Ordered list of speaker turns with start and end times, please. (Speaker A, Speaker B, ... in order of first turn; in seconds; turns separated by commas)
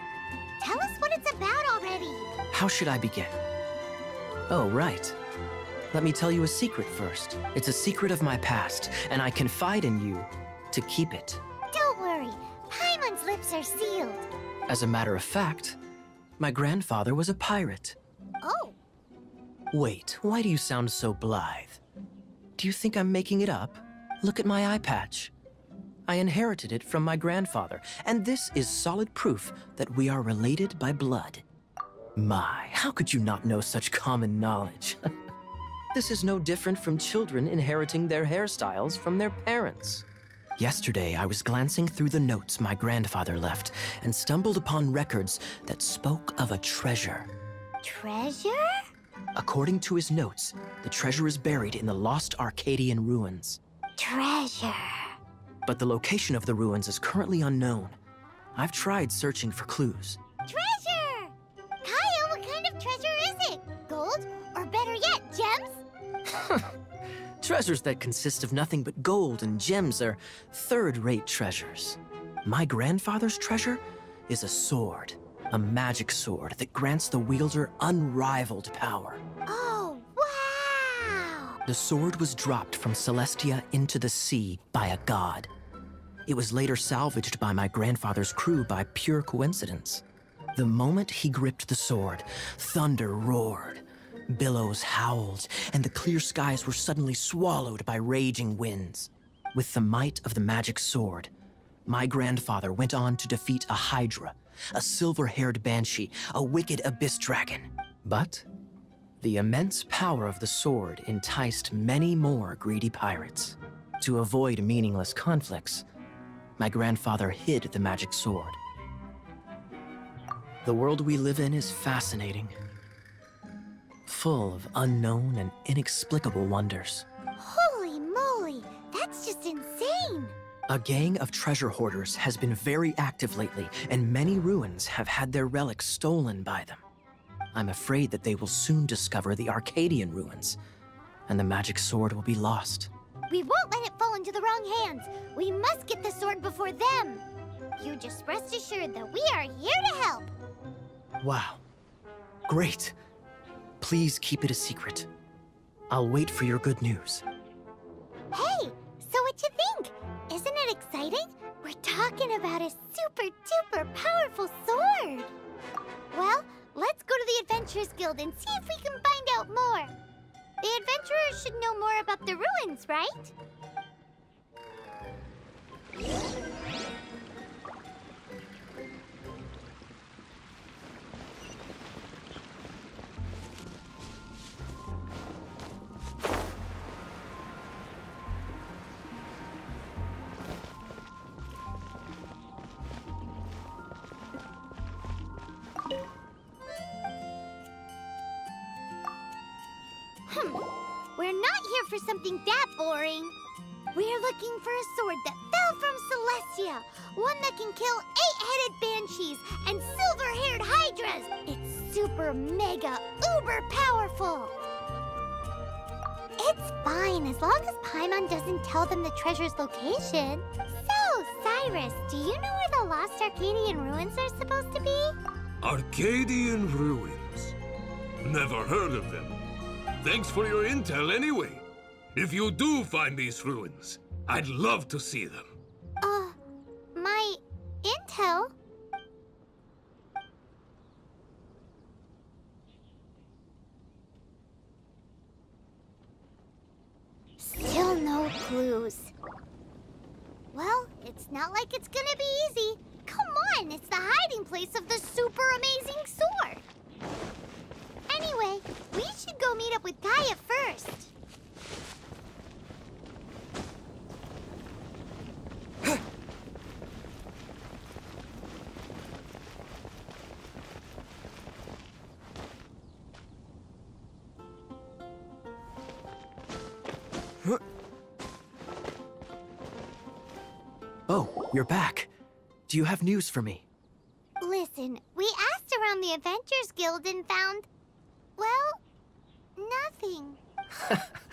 Speaker A: 0.6-2.3, Speaker B: 2.5-3.4, Speaker B: 4.5-5.2, Speaker B: 5.9-11.4, Speaker A: 11.7-14.3, Speaker B: 14.7-15.8, Speaker B: 16.4-18.0, Speaker A: 18.4-18.8, Speaker B: 19.7-21.8, Speaker B: 22.6-25.3, Speaker B: 26.1-31.4, Speaker B: 32.2-35.0, Speaker B: 35.9-40.0, Speaker B: 40.6-47.3, Speaker A: 47.8-48.9, Speaker B: 49.4-53.6, Speaker A: 54.0-55.2, Speaker B: 55.6-58.0, Speaker B: 58.5-60.2, Speaker A: 60.5-65.8, Speaker B: 66.3-66.7, Speaker B: 67.4-79.2, Speaker A: 79.5-81.6, Speaker B: 81.7-85.5, Speaker B: 86.3-90.0, Speaker B: 90.5-101.3, Speaker B: 101.9-108.5, Speaker B: 109.2-115.8, Speaker B: 116.6-118.6, Speaker B: 120.7-122.5, Speaker B: 124.1-127.1, Speaker A: 127.4-130.3, Speaker B: 130.7-136.8, Speaker B: 137.5-140.6, Speaker B: 141.3-142.9, Speaker A: 143.3-147.3, Speaker A: 147.8-150.3, Speaker B: 151.2-151.6, Speaker B: 152.5-153.0, Speaker B: 153.8-155.1, Speaker B: 155.9-157.2, Speaker A: 158.3-165.3, Speaker A: 166.1-169.9, Speaker A: 170.6-173.3, Speaker A: 200.3-200.6, Speaker A: 201.2-203.3, Speaker A: 203.9-214.6, Speaker A: 216.4-225.2, Speaker C: 225.6-227.6, Speaker C: 228.2-229.4, Speaker C: 230.0-235.5, Speaker A: 236.0-236.4, Speaker A: 236.9-238.5, Speaker A: 247.4-249.1, Speaker A: 250.5-256.6, Speaker A: 258.1-261.1, Speaker B: 281.1-282.1, Speaker B: 282.7-283.7, Speaker A: 284.4-287.7, Speaker A: 288.4-288.8, Speaker A: 289.6-290.4, Speaker B: 290.8-291.2